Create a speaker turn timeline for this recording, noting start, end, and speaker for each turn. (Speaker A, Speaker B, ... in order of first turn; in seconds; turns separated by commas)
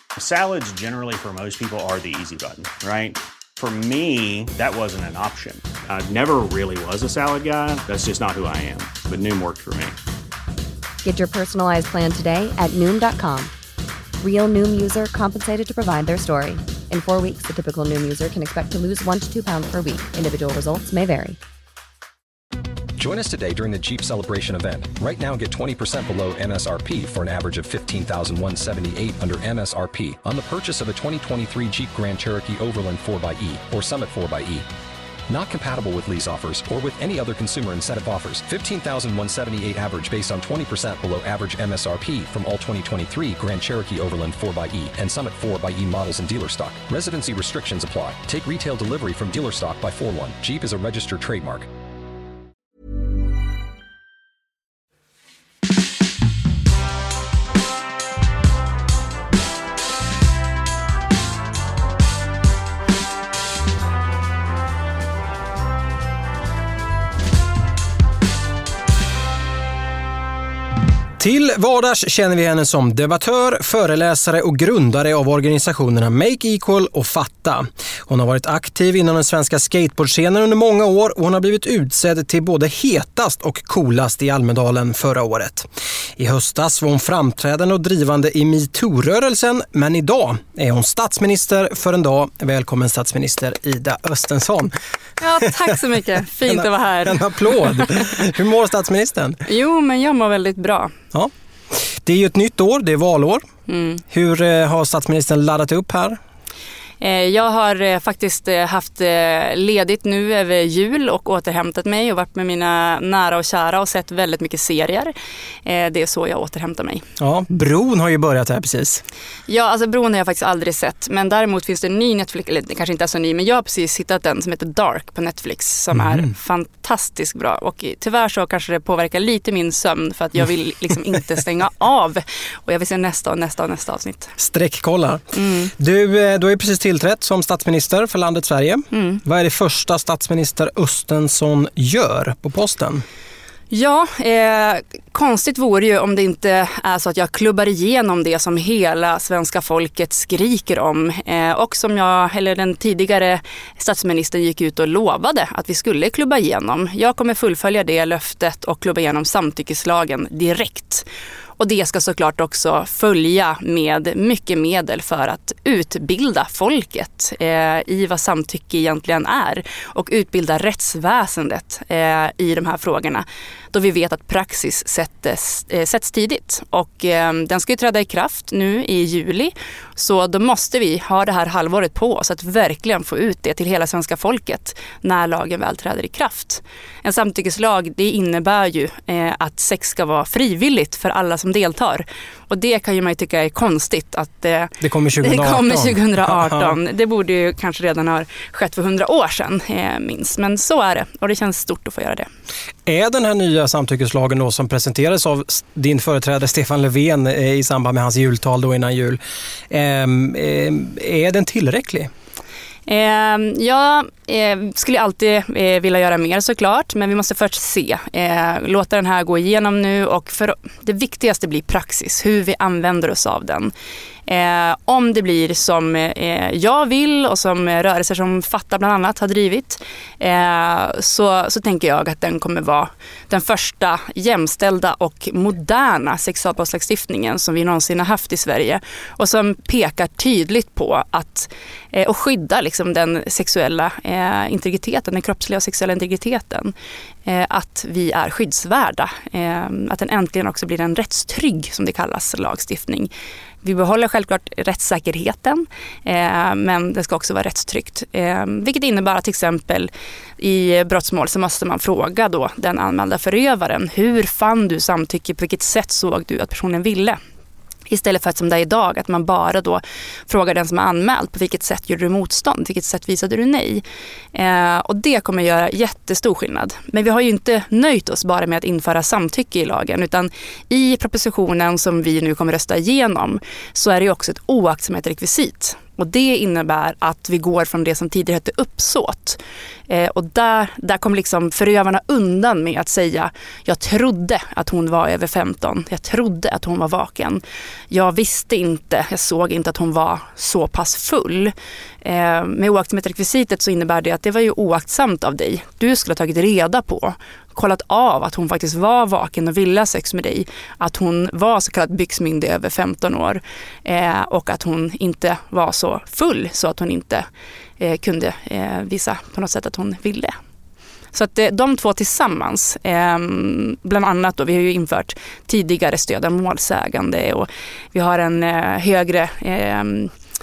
Speaker A: 0.2-9.9, Speaker B: 11.0-13.5, Speaker B: 14.2-21.4, Speaker C: 23.0-34.7, Speaker C: 35.3-51.7, Speaker D: 71.2-94.7, Speaker E: 95.2-98.1, Speaker D: 95.4-95.8, Speaker D: 96.5-99.4, Speaker E: 99.5-101.0, Speaker D: 101.1-103.5, Speaker E: 103.7-104.0, Speaker D: 104.1-106.2, Speaker E: 107.0-115.1, Speaker E: 115.6-117.0, Speaker D: 117.2-119.0, Speaker E: 119.5-134.3, Speaker D: 125.9-126.3, Speaker D: 134.4-143.0, Speaker E: 135.3-135.7, Speaker E: 138.9-139.2, Speaker E: 143.7-161.1, Speaker E: 161.6-202.3, Speaker D: 194.8-196.8, Speaker D: 202.8-212.1, Speaker E: 212.9-223.7, Speaker E: 224.3-246.7, Speaker E: 247.2-253.1, Speaker E: 253.6-267.2, Speaker E: 267.9-273.8, Speaker E: 274.3-317.3, Speaker E: 317.8-320.3, Speaker E: 321.1-330.1